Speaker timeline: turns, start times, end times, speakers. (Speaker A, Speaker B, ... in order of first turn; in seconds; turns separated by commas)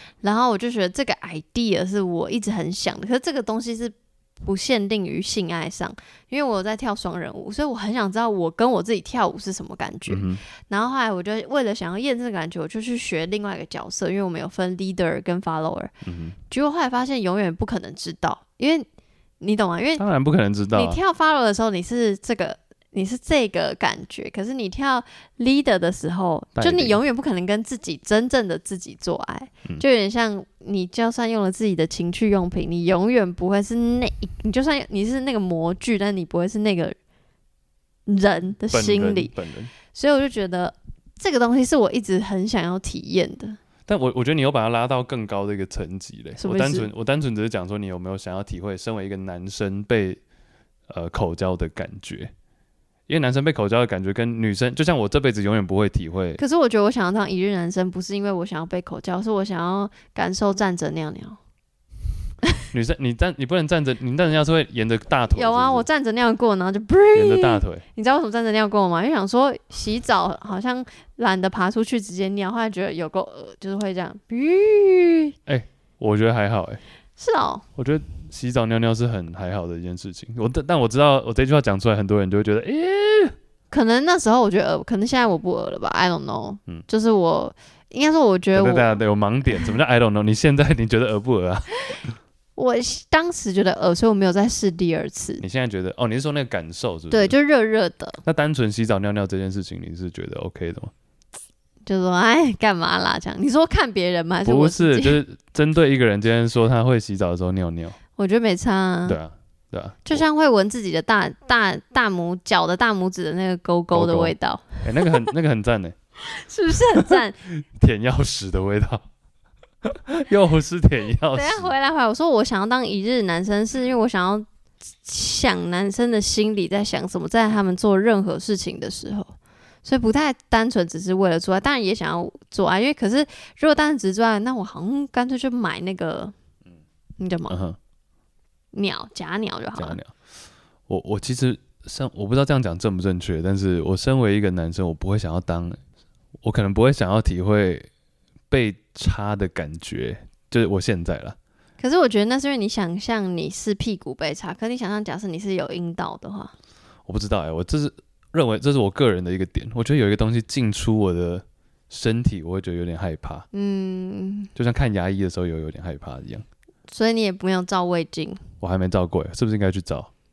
Speaker A: 0.2-15.9, Speaker B: 10.1-10.4, Speaker B: 16.0-16.4, Speaker A: 16.5-18.9, Speaker A: 19.4-20.0, Speaker B: 20.0-21.0, Speaker A: 20.7-37.0, Speaker B: 26.6-27.0, Speaker A: 38.1-39.3, Speaker B: 38.7-39.7, Speaker A: 39.9-43.6, Speaker B: 43.9-50.2, Speaker A: 46.4-46.9, Speaker B: 50.9-52.3, Speaker B: 53.1-56.4, Speaker A: 56.4-61.4, Speaker B: 62.7-65.9, Speaker A: 65.3-75.3, Speaker B: 67.1-67.8, Speaker B: 75.5-76.8, Speaker A: 77.2-77.6, Speaker B: 77.8-83.3, Speaker A: 83.7-88.9, Speaker B: 88.5-92.0, Speaker A: 92.5-95.4, Speaker B: 95.4-97.3, Speaker A: 97.1-98.2, Speaker B: 98.2-100.9, Speaker A: 101.8-105.2, Speaker B: 104.4-108.0, Speaker A: 108.2-109.2, Speaker B: 109.0-110.2, Speaker A: 110.1-115.1, Speaker B: 113.9-115.9, Speaker A: 116.2-117.4, Speaker B: 117.1-119.0, Speaker B: 119.8-121.7, Speaker A: 121.3-124.5, Speaker A: 125.0-136.3, Speaker A: 137.2-137.6, Speaker B: 137.5-137.8, Speaker A: 138.7-140.0, Speaker B: 139.7-140.1, Speaker B: 140.9-145.8, Speaker B: 146.4-147.9, Speaker B: 148.5-151.4, Speaker A: 151.8-156.5, Speaker B: 157.1-163.4, Speaker A: 163.5-164.5, Speaker B: 164.6-166.4, Speaker A: 166.9-168.4, Speaker B: 168.6-170.1